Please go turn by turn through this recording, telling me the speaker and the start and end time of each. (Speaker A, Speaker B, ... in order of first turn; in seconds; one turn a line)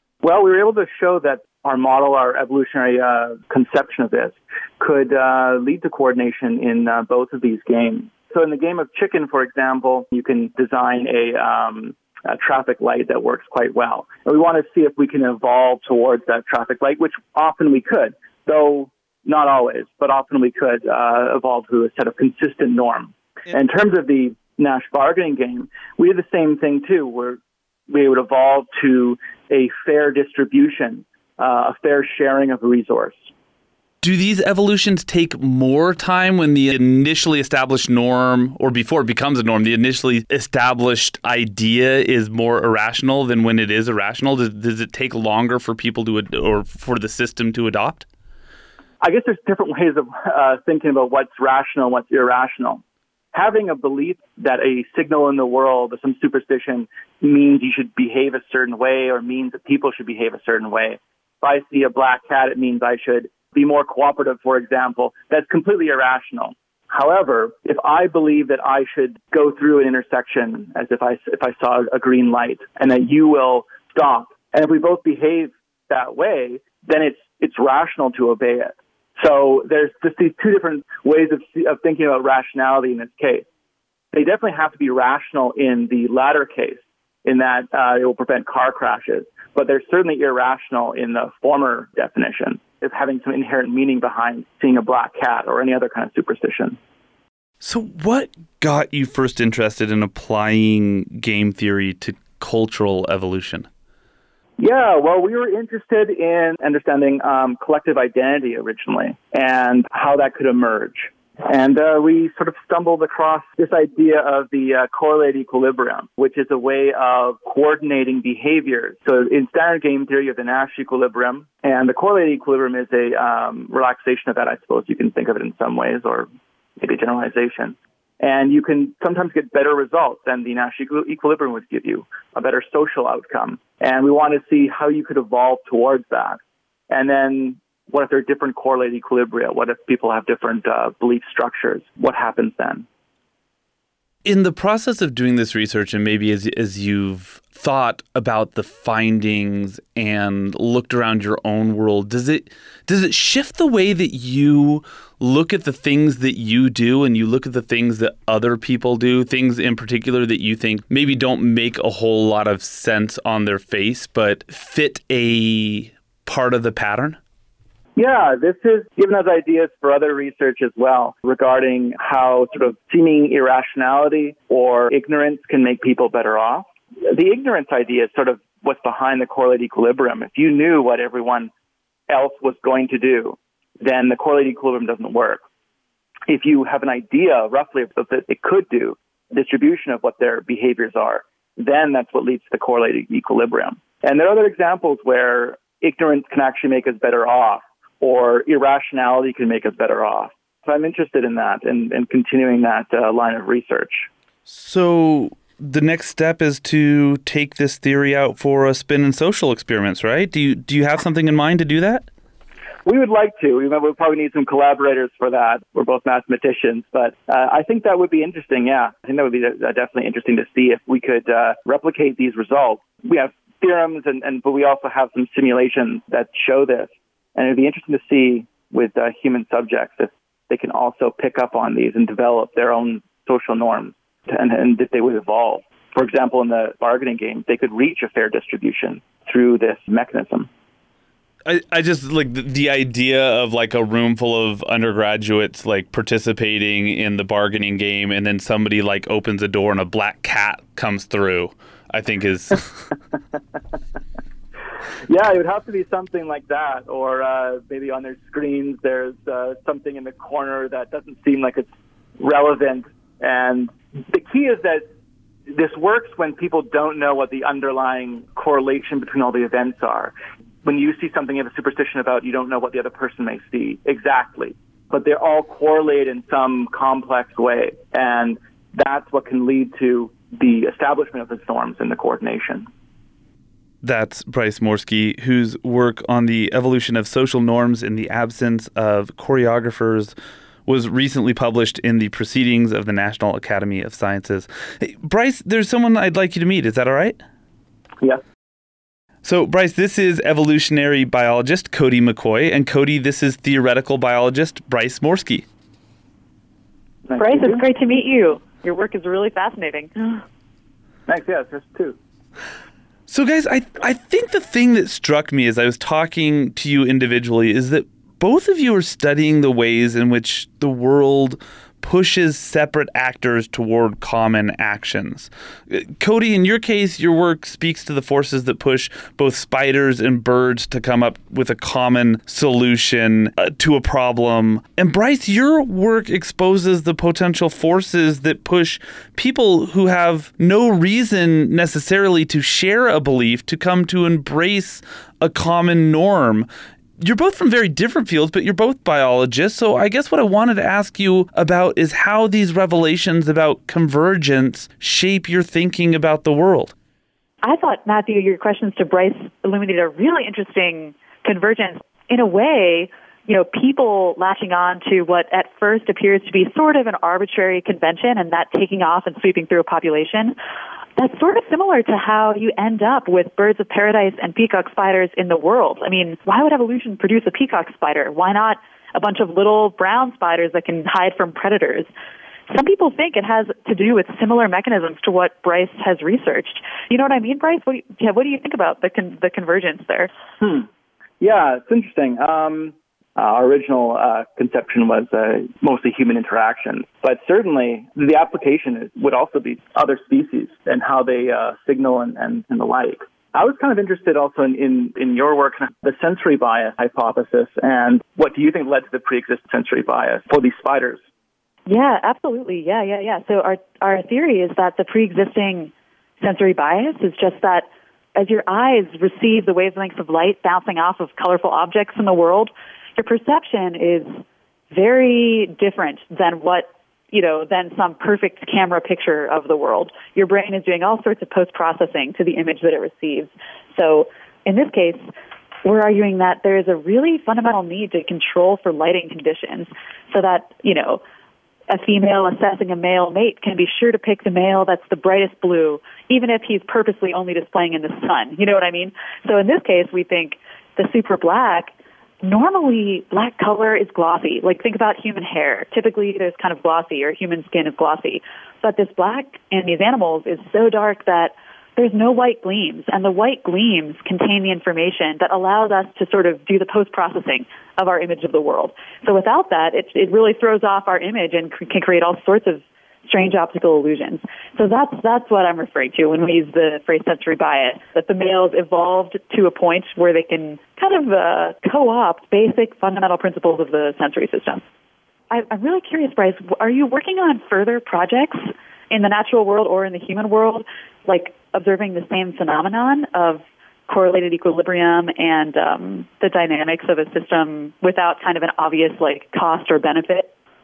Speaker A: 0.2-33.3
Speaker B: 34.0-48.1
Speaker A: 49.0-52.8
Speaker A: 53.3-83.5
Speaker A: 84.1-96.8
Speaker B: 97.6-103.7
Speaker A: 104.6-126.3
Speaker A: 126.8-142.9
Speaker B: 144.2-167.2
Speaker A: 168.0-181.5
Speaker A: 182.1-185.4
Speaker A: 186.3-204.1
Speaker B: 204.5-212.1
Speaker A: 212.8-240.5
Speaker B: 241.4-252.9
Speaker A: 255.1-264.8
Speaker A: 265.5-282.7
Speaker B: 283.8-290.1
Speaker B: 290.7-297.2
Speaker B: 299.2-305.5
Speaker A: 307.1-307.6
Speaker C: 307.2-310.2
Speaker A: 311.1-312.0
Speaker B: 313.1-346.5
Speaker B: 347.0-356.7
Speaker C: 357.4-370.4
Speaker C: 371.0-381.9
Speaker C: 382.5-390.1
Speaker A: 390.4-390.7
Speaker A: 391.2-411.0
Speaker C: 411.7-424.2
Speaker C: 424.7-435.0
Speaker C: 435.6-441.0
Speaker C: 441.7-451.7
Speaker C: 452.2-484.6
Speaker C: 485.3-500.3